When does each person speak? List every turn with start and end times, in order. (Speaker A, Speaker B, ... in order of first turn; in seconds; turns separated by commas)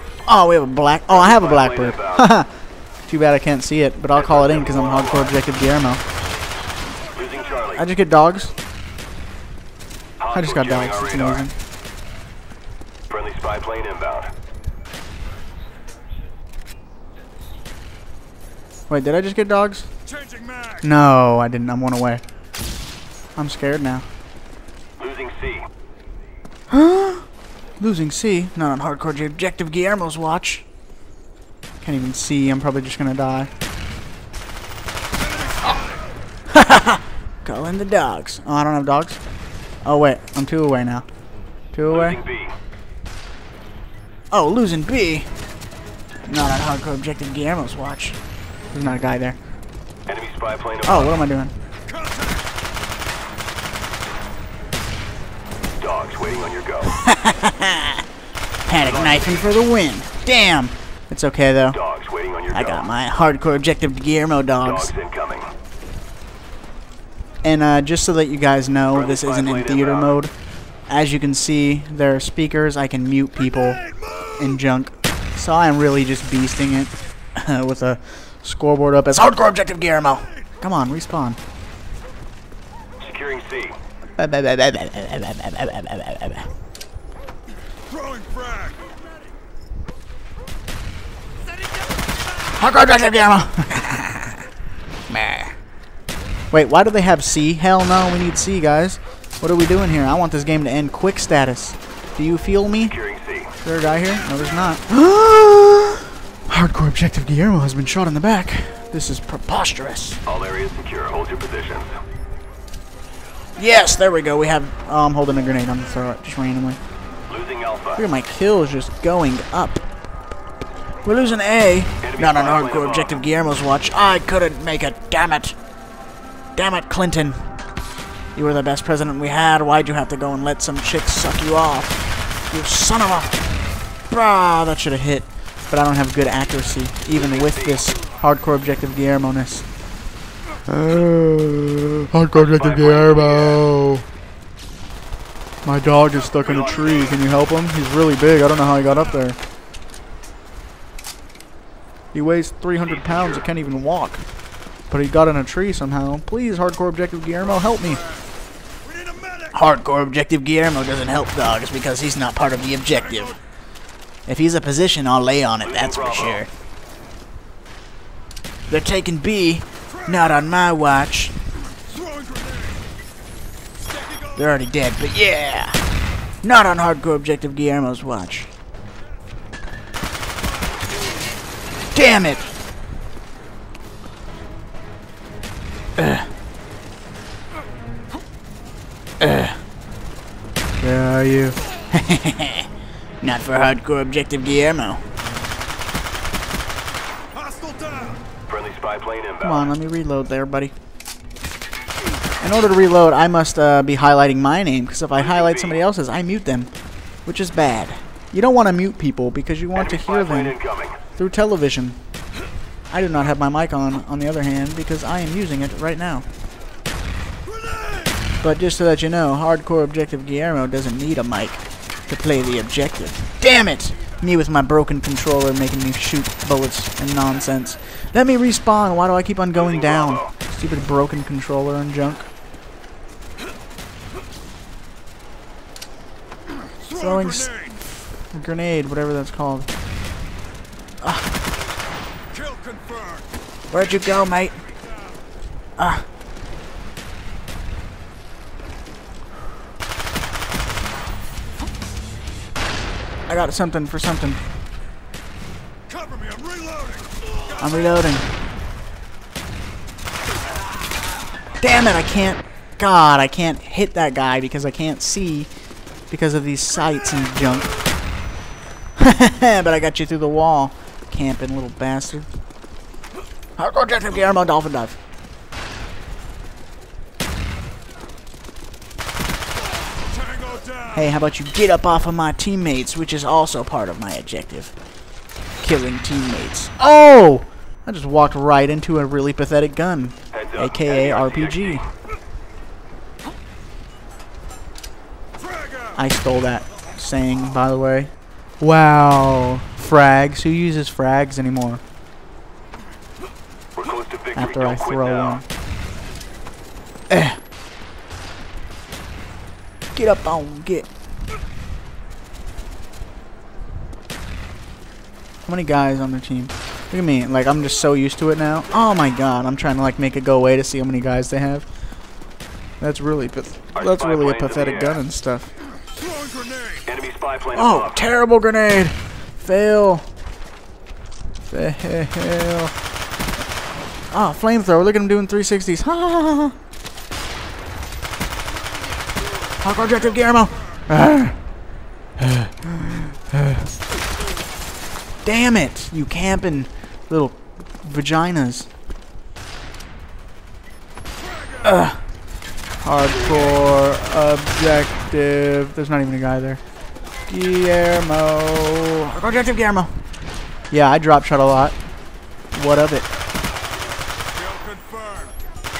Speaker A: 0.2-6.0, Speaker B: 1.3-2.2, Speaker B: 4.7-5.0, Speaker B: 7.2-7.8, Speaker A: 7.7-8.5, Speaker B: 10.2-11.3, Speaker A: 10.3-11.5, Speaker B: 13.1-14.3, Speaker A: 18.9-19.9, Speaker A: 20.8-22.2, Speaker A: 23.4-24.1, Speaker B: 25.0-25.6, Speaker A: 26.7-27.2, Speaker A: 27.8-30.6, Speaker A: 31.8-33.5, Speaker A: 36.5-39.2, Speaker A: 39.8-41.1, Speaker A: 41.6-42.2, Speaker B: 41.9-42.5, Speaker A: 44.3-45.3, Speaker A: 46.2-48.2, Speaker A: 48.7-49.4, Speaker B: 50.1-50.9, Speaker A: 50.8-51.5, Speaker B: 55.8-56.9, Speaker A: 56.9-58.0, Speaker A: 58.7-61.8, Speaker B: 61.9-62.6, Speaker A: 62.5-64.9, Speaker B: 64.8-65.5, Speaker A: 67.4-81.4, Speaker B: 69.0-70.0, Speaker B: 83.0-83.7, Speaker A: 84.2-86.5, Speaker A: 92.5-94.4, Speaker A: 95.1-95.5, Speaker A: 96.5-103.0, Speaker B: 103.0-103.4, Speaker A: 103.5-110.2, Speaker B: 110.3-111.9, Speaker A: 113.6-116.8, Speaker B: 117.3-118.0, Speaker A: 117.9-119.8, Speaker A: 121.0-125.6, Speaker B: 122.1-123.1, Speaker A: 126.5-127.5, Speaker A: 128.3-133.4, Speaker A: 134.1-139.7, Speaker A: 140.7-144.1, Speaker B: 142.5-143.6, Speaker A: 145.6-149.4, Speaker A: 152.1-154.2, Speaker A: 154.9-158.0, Speaker A: 159.5-163.4, Speaker A: 164.2-166.5, Speaker B: 165.7-166.4, Speaker A: 168.7-171.4, Speaker A: 174.3-175.8, Speaker A: 176.3-178.5, Speaker A: 181.9-182.5, Speaker A: 186.0-186.3, Speaker A: 189.2-189.6, Speaker A: 190.8-192.7, Speaker A: 193.2-195.0, Speaker B: 198.5-199.4, Speaker A: 199.4-200.7, Speaker A: 202.4-212.0, Speaker B: 209.8-210.9, Speaker A: 212.9-216.2, Speaker A: 218.4-232.3, Speaker A: 236.8-239.7, Speaker A: 241.0-241.3, Speaker A: 243.7-244.6, Speaker A: 245.8-246.1, Speaker A: 253.3-254.4, Speaker A: 257.5-258.4, Speaker A: 261.6-265.5, Speaker A: 266.1-267.8, Speaker A: 269.0-272.3, Speaker A: 273.6-275.0, Speaker A: 280.8-284.8, Speaker A: 285.6-291.9, Speaker B: 290.4-291.8, Speaker A: 295.9-301.8, Speaker B: 303.8-305.3, Speaker A: 304.3-305.4, Speaker A: 307.1-307.4, Speaker A: 309.9-310.9, Speaker A: 315.4-321.7, Speaker A: 322.8-325.5, Speaker B: 323.9-324.9, Speaker B: 326.9-327.8, Speaker A: 327.5-330.1, Speaker A: 331.5-332.7, Speaker A: 334.1-336.6, Speaker A: 339.6-341.6, Speaker A: 342.2-343.7, Speaker A: 345.2-348.7, Speaker A: 351.6-352.1, Speaker A: 352.8-356.6, Speaker A: 357.3-360.0, Speaker A: 360.7-361.8, Speaker A: 362.5-363.1